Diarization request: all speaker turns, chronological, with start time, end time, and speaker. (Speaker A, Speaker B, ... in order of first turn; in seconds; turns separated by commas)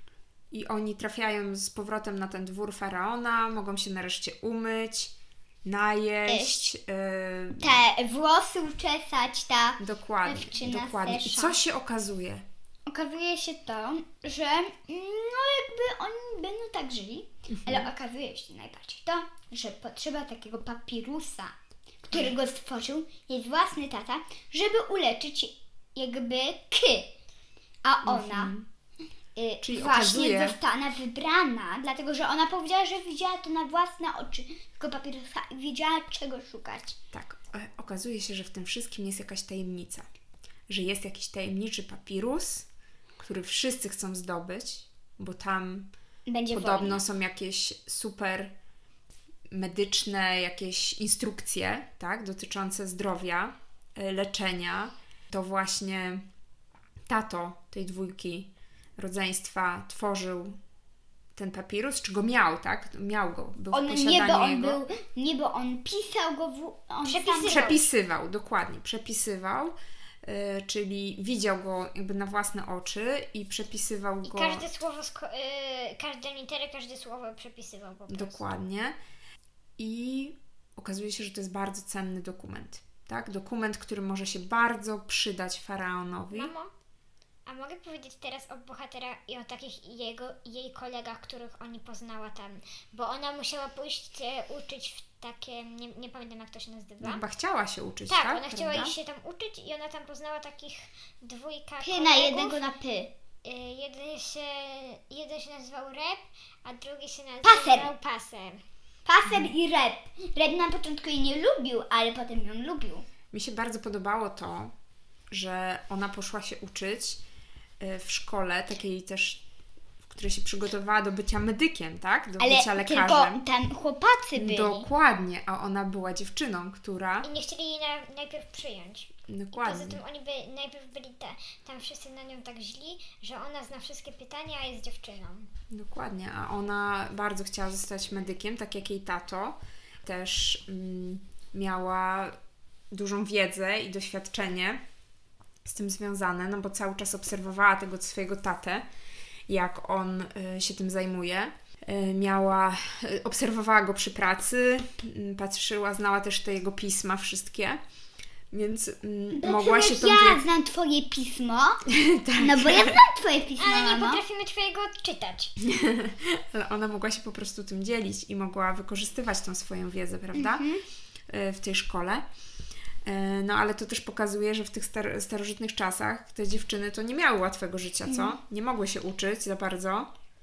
Speaker A: 0.5-7.8, Speaker B: 6.3-6.7, Speaker B: 7.6-11.6, Speaker A: 9.8-12.4, Speaker B: 12.9-21.5, Speaker A: 17.5-17.9, Speaker B: 22.1-27.1, Speaker B: 27.8-28.5, Speaker A: 28.1-28.7, Speaker B: 29.4-37.0, Speaker A: 29.6-30.6, Speaker A: 37.1-40.0, Speaker A: 40.7-42.7, Speaker A: 43.2-45.9, Speaker B: 46.3-47.0, Speaker A: 46.5-48.5, Speaker A: 49.5-56.2, Speaker A: 57.1-60.6, Speaker A: 61.4-64.8, Speaker B: 63.7-67.7, Speaker C: 67.0-67.9, Speaker A: 67.5-74.7, Speaker C: 74.2-78.4, Speaker A: 78.1-79.0, Speaker A: 79.8-86.5, Speaker C: 86.3-86.7, Speaker C: 87.5-97.2, Speaker A: 97.0-99.0, Speaker C: 98.1-102.7, Speaker B: 101.8-103.1, Speaker C: 103.4-108.6, Speaker B: 107.4-107.9, Speaker B: 109.1-113.1, Speaker A: 109.3-109.5, Speaker A: 113.3-114.7, Speaker A: 115.3-117.2, Speaker A: 117.8-119.4, Speaker A: 120.0-123.4, Speaker B: 122.4-124.9, Speaker A: 124.3-127.3, Speaker C: 127.2-135.5, Speaker A: 129.3-130.0, Speaker A: 135.7-142.3, Speaker A: 142.9-144.8, Speaker A: 145.7-148.8, Speaker A: 149.5-157.8, Speaker A: 158.5-160.4, Speaker B: 159.3-161.8, Speaker A: 161.9-162.9, Speaker B: 162.4-164.2, Speaker C: 163.6-165.5, Speaker A: 165.6-170.7, Speaker B: 170.3-170.8, Speaker A: 171.3-172.2, Speaker A: 173.1-180.1, Speaker B: 178.1-178.4